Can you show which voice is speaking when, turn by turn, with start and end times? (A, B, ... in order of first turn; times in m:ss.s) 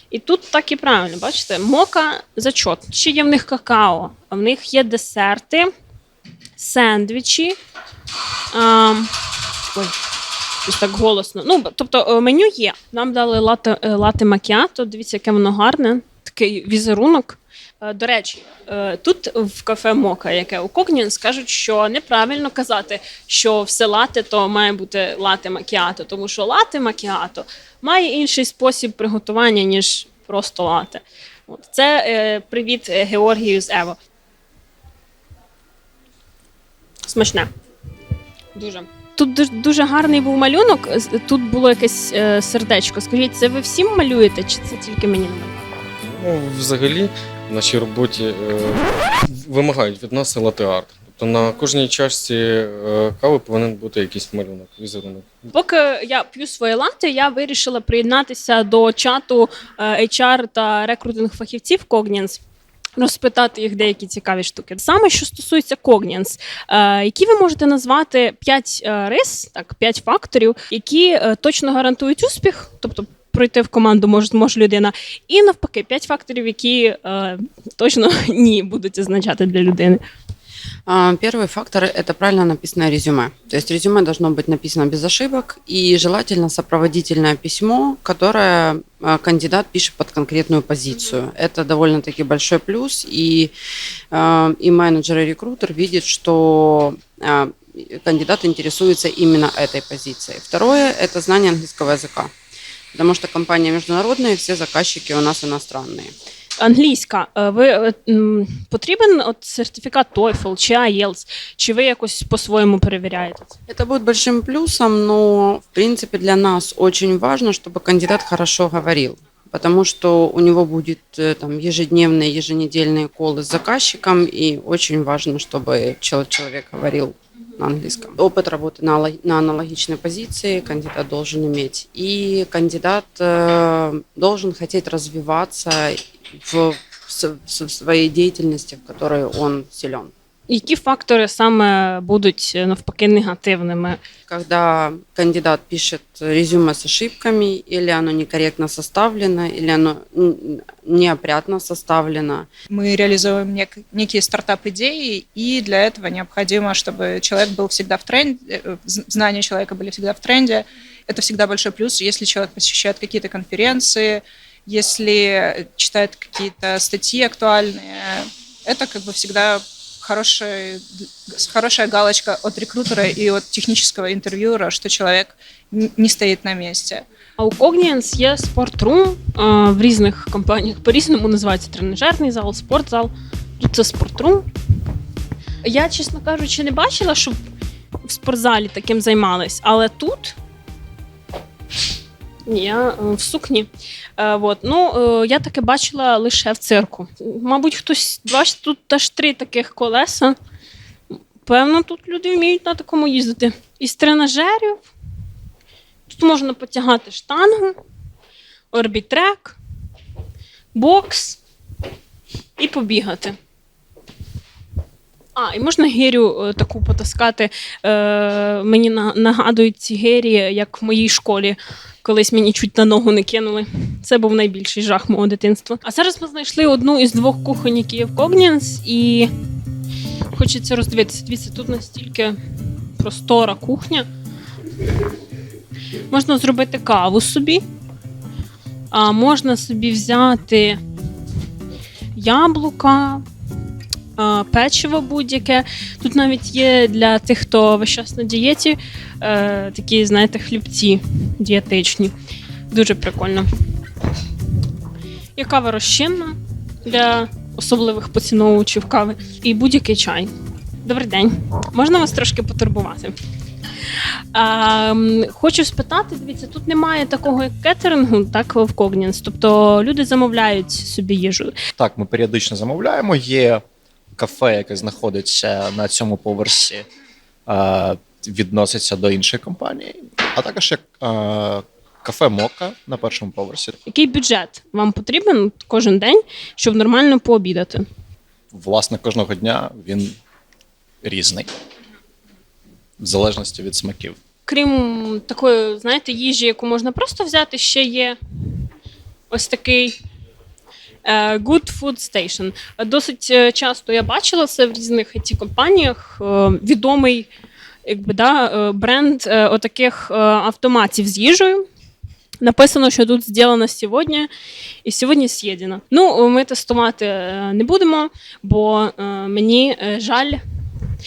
0:00.1-0:05.7 A
0:06.6-0:07.6 A
0:08.5-0:09.1 A
0:10.6-0:34.0 A
0:37.1-0:37.5 A
0:38.6-0:45.7 A
0:46.2-0:55.2 B
0:55.5-1:02.4 A
1:03.0-1:20.0 A
1:20.9-1:33.5 C
1:34.1-1:42.3 C
1:42.9-1:46.1 C
1:46.6-1:53.6 A
1:53.7-2:20.1 C
2:20.5-2:24.0 A
2:24.3-2:32.5 C
2:32.7-2:57.0 D
2:57.4-3:04.5 A
3:05.6-3:07.4 A
3:08.0-3:10.4 A
3:12.5-3:20.4 A
3:21.4-3:24.8 A
3:26.1-3:27.8 A
3:28.7-3:29.6 A
3:30.7-3:31.4 A
3:32.6-3:33.4 A
3:35.4-3:49.3 A
3:50.3-3:52.4 A
3:53.0-3:54.1 A
3:56.1-3:57.6 A
3:58.9-4:00.8 A
4:02.2-4:03.2 A
4:04.2-4:12.1 A
4:12.7-4:13.5 A
4:15.4-4:20.3 A
4:20.8-4:23.2 A
4:24.3-4:31.6 A
4:31.8-4:33.0 E
4:34.2-4:36.7 E
4:37.7-4:41.6 E
4:42.1-4:43.6 E
4:43.9-4:47.8 A
4:48.6-4:50.1 E
4:51.1-4:51.5 E
4:53.0-4:54.1 E
4:54.5-4:58.2 A
4:59.3-5:00.0 A
5:01.0-5:07.3 A
5:07.8-5:11.6 A
5:12.4-5:14.3 A
5:14.8-5:20.4 A